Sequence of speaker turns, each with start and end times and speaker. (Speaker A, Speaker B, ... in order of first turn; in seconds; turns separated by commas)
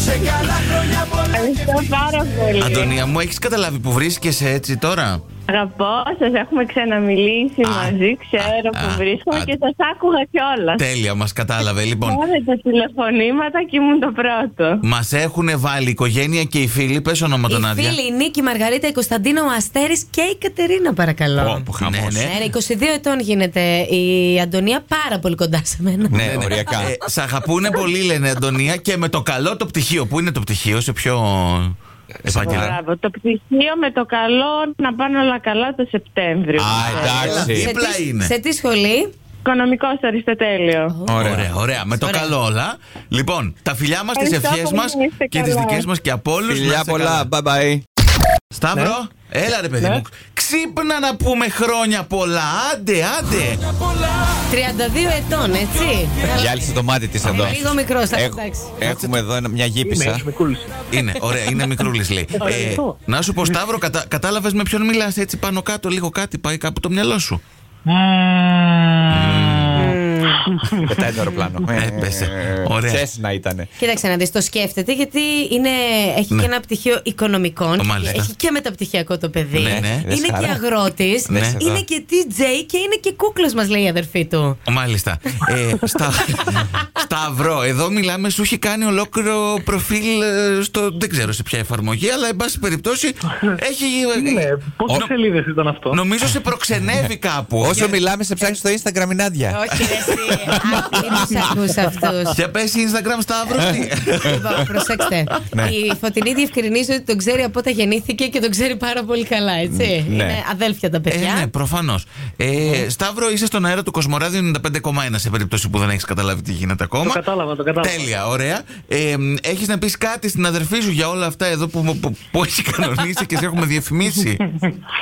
Speaker A: 0.2-0.7, Speaker B: 1.3-2.9, Speaker C: 2.5-5.2, Speaker B: 7.0-10.8, Speaker C: 7.6-9.5, Speaker C: 10.8-12.2, Speaker B: 12.1-12.8, Speaker C: 14.8-18.0, Speaker A: 17.5-21.7, Speaker D: 21.4-22.2, Speaker C: 21.8-22.3, Speaker A: 22.2-26.2, Speaker D: 26.1-26.9, Speaker C: 26.1-31.7, Speaker D: 32.2-32.8, Speaker C: 32.2-32.8, Speaker D: 36.5-37.7, Speaker A: 36.7-39.1, Speaker C: 36.8-38.3, Speaker B: 39.4-40.9, Speaker A: 40.9-41.3, Speaker D: 41.1-41.5, Speaker C: 41.2-47.3, Speaker A: 42.0-42.4, Speaker B: 44.1-45.9, Speaker D: 46.5-47.8, Speaker C: 48.5-53.6, Speaker A: 54.5-56.7, Speaker D: 56.3-60.2, Speaker A: 57.3-58.7, Speaker C: 57.3-57.5, Speaker C: 58.8-59.1, Speaker E: 59.8-60.7, Speaker C: 60.9-67.4, Speaker E: 62.4-63.0, Speaker A: 62.5-62.7, Speaker E: 67.8-70.8, Speaker C: 69.1-69.9, Speaker A: 69.7-70.4, Speaker D: 70.8-73.7, Speaker C: 71.7-73.0, Speaker A: 73.8-84.6, Speaker C: 77.8-78.3, Speaker C: 79.5-80.0, Speaker D: 79.6-80.6, Speaker D: 81.2-81.7, Speaker C: 81.3-81.6, Speaker C: 84.7-95.1, Speaker E: 94.1-96.0, Speaker C: 95.9-97.9, Speaker D: 97.6-99.6, Speaker A: 97.7-98.5, Speaker A: 99.5-102.4, Speaker D: 100.2-101.5, Speaker C: 102.3-105.2, Speaker A: 104.2-111.5, Speaker D: 109.7-110.4, Speaker C: 111.1-117.2, Speaker E: 117.0-118.1, Speaker C: 117.8-124.4